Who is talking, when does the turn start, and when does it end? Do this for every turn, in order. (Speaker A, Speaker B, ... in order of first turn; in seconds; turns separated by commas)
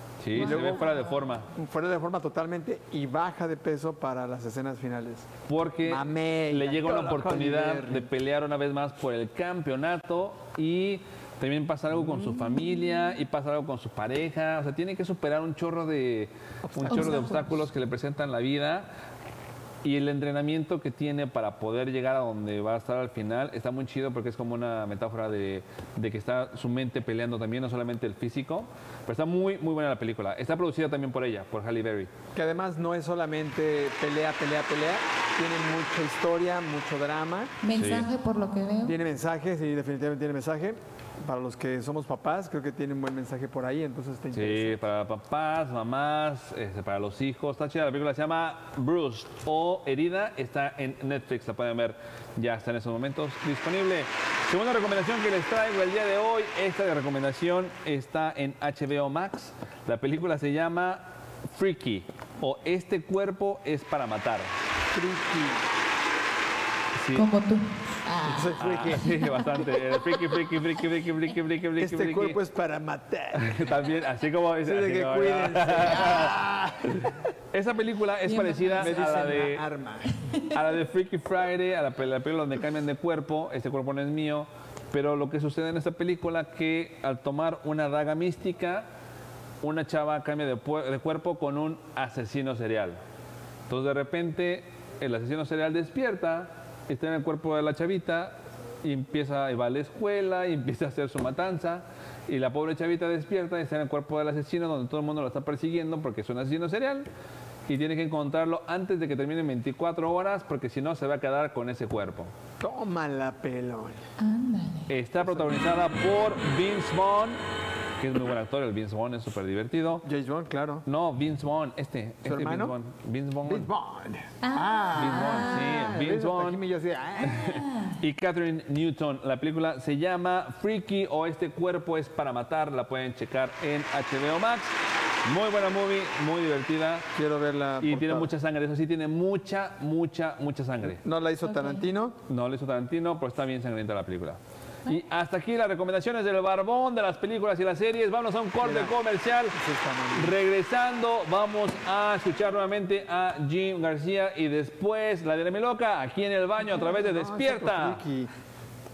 Speaker A: 0.2-1.5, Speaker B: 0.3-1.0, Speaker C: 0.3-1.3, Speaker B: 1.5-5.3, Speaker A: 5.5-18.9, Speaker B: 5.8-8.1, Speaker B: 16.6-17.6, Speaker C: 16.9-17.4, Speaker A: 19.8-32.1, Speaker B: 32.3-37.5, Speaker C: 37.6-39.0, Speaker A: 37.7-38.1, Speaker B: 38.8-44.8, Speaker A: 44.3-64.5, Speaker B: 64.9-65.7, Speaker A: 66.9-67.3, Speaker C: 67.2-68.5, Speaker B: 68.2-69.1, Speaker A: 68.5-72.4, Speaker C: 69.0-69.4, Speaker B: 71.8-73.6, Speaker A: 73.3-79.7, Speaker B: 74.6-77.1, Speaker C: 78.2-79.0, Speaker B: 78.8-80.1, Speaker A: 80.5-88.9, Speaker A: 89.6-93.0, Speaker A: 93.7-107.1, Speaker A: 107.7-112.3, Speaker B: 112.6-114.0, Speaker C: 114.2-114.9, Speaker A: 114.9-117.4, Speaker B: 115.2-115.6, Speaker A: 118.0-120.0, Speaker B: 120.0-120.8, Speaker A: 120.8-123.7, Speaker B: 122.2-122.7, Speaker B: 123.4-127.6, Speaker C: 124.4-125.8, Speaker A: 124.9-126.6, Speaker C: 127.3-128.0, Speaker A: 127.3-137.1, Speaker B: 137.2-138.3, Speaker A: 137.8-141.0, Speaker B: 140.8-142.2, Speaker C: 141.4-141.9, Speaker A: 142.3-149.6, Speaker B: 148.6-149.0, Speaker B: 149.5-150.3, Speaker A: 150.1-158.0, Speaker B: 156.6-158.3